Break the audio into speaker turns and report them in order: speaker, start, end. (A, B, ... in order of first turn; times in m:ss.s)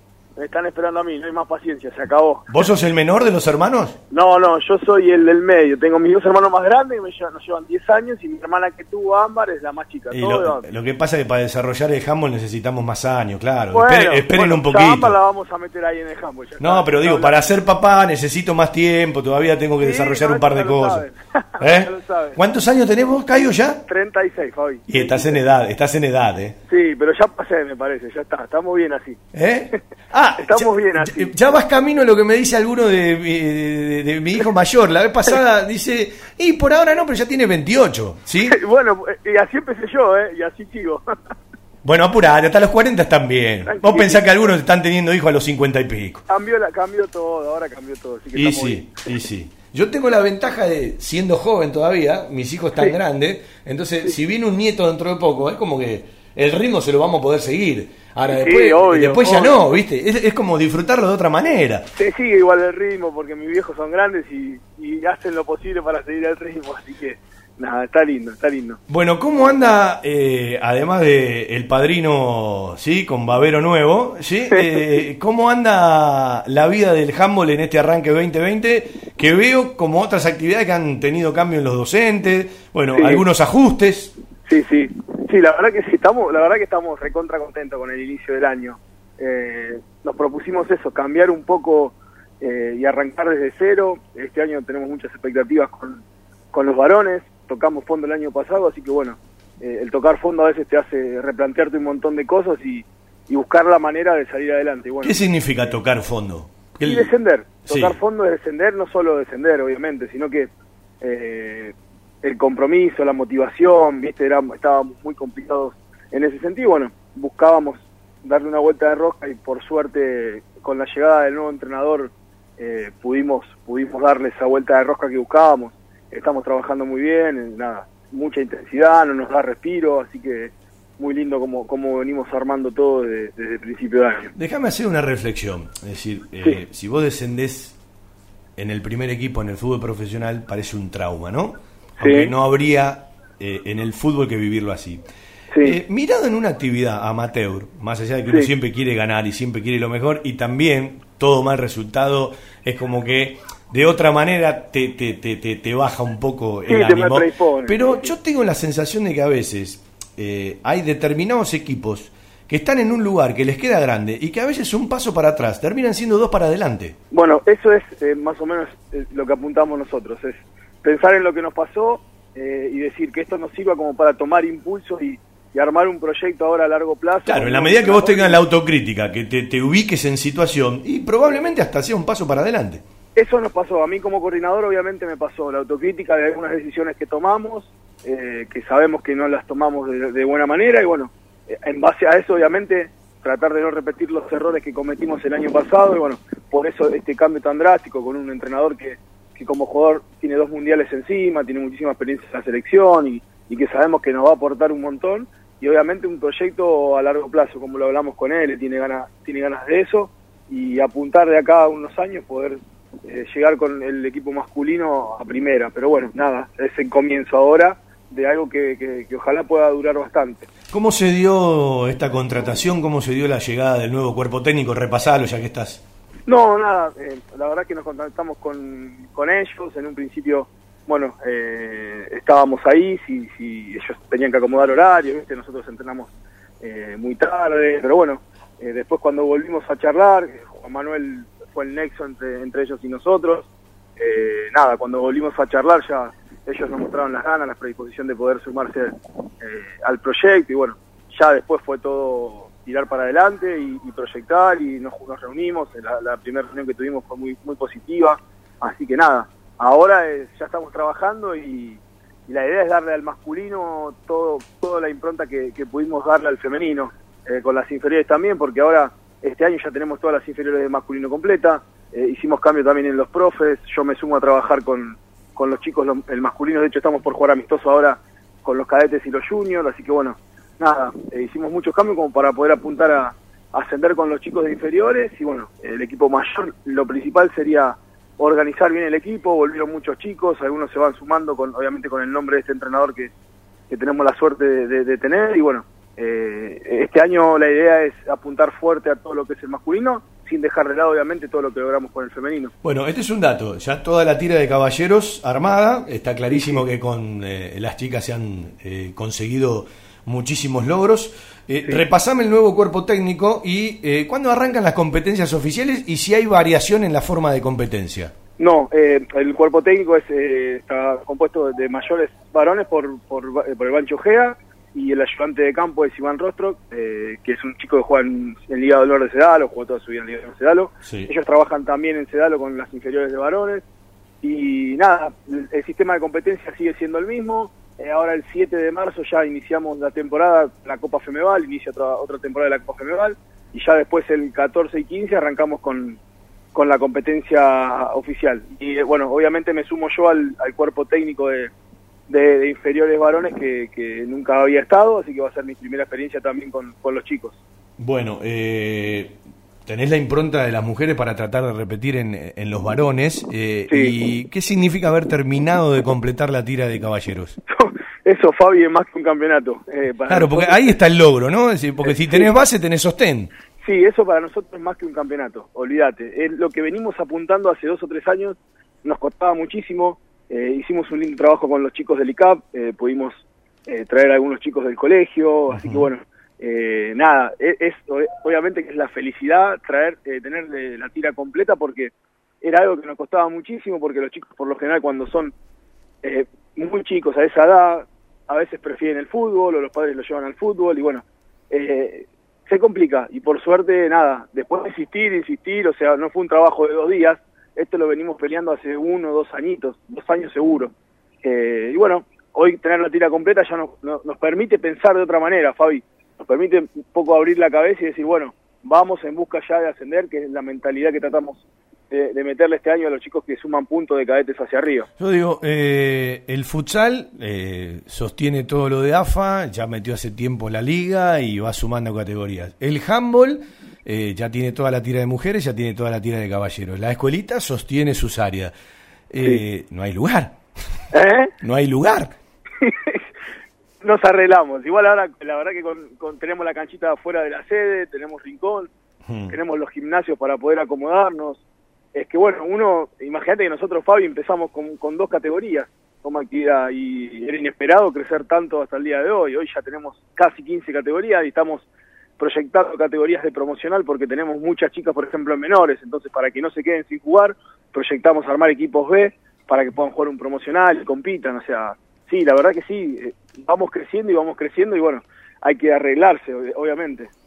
0:00.4-0:02.6 A
0:02.5-0:04.0 B
0:04.1-0:10.6 A
0:10.1-0:15.2 B
0:13.7-0:17.4 A
0:16.6-0:21.0 B
0:19.8-0:22.4 A
0:21.6-0:23.8 B
0:23.9-0:25.4 A
0:24.9-0:26.6 B
0:26.7-0:29.2 A
0:29.3-0:38.6 B
0:30.4-0:31.3 A
0:38.5-0:41.0 A
0:41.8-0:46.2 B
0:43.6-0:44.5 A
0:46.3-0:49.2 A
0:48.3-1:01.9 B
0:58.3-0:59.8 A
1:01.9-1:08.8 A
1:08.9-1:24.1 B
1:14.5-1:15.0 A
1:22.9-1:23.2 A
1:24.5-1:45.2 A
1:45.0-1:47.1 B
1:46.8-1:50.5 A
1:47.7-1:48.0 B
1:51.0-2:14.3 A
2:14.3-2:17.8 B
2:18.6-2:25.0 B
2:22.0-2:22.3 A
2:25.6-2:47.0 B
2:36.7-2:38.1 A
2:47.1-2:58.4 A
2:57.2-3:02.8 B
3:03.2-3:40.5 A
3:40.7-3:45.8 B
3:46.3-4:03.5 A
4:04.0-4:53.1 A
4:53.7-5:02.5 A
5:02.6-5:18.1 B
5:06.3-5:06.6 A
5:18.4-5:33.6 A
5:30.8-5:31.1 B
5:34.2-5:46.0 A
5:46.5-5:51.5 A
5:52.1-5:57.4 A
5:57.8-6:07.4 B
6:07.5-6:10.8 A
6:10.1-6:13.3 B
6:11.8-6:12.3 A
6:13.6-6:31.9 A
6:25.5-6:25.8 B
6:32.4-6:35.3 A
6:36.0-6:50.7 A
6:51.2-7:04.9 A
7:05.0-7:18.5 B
7:19.1-7:20.4 B
7:20.9-7:21.3 A
7:21.4-7:22.1 B
7:22.6-7:23.0 A
7:23.8-7:28.7 A
7:29.0-7:29.4 B
7:29.3-7:31.4 A
7:31.9-7:41.6 A
7:42.2-7:57.1 A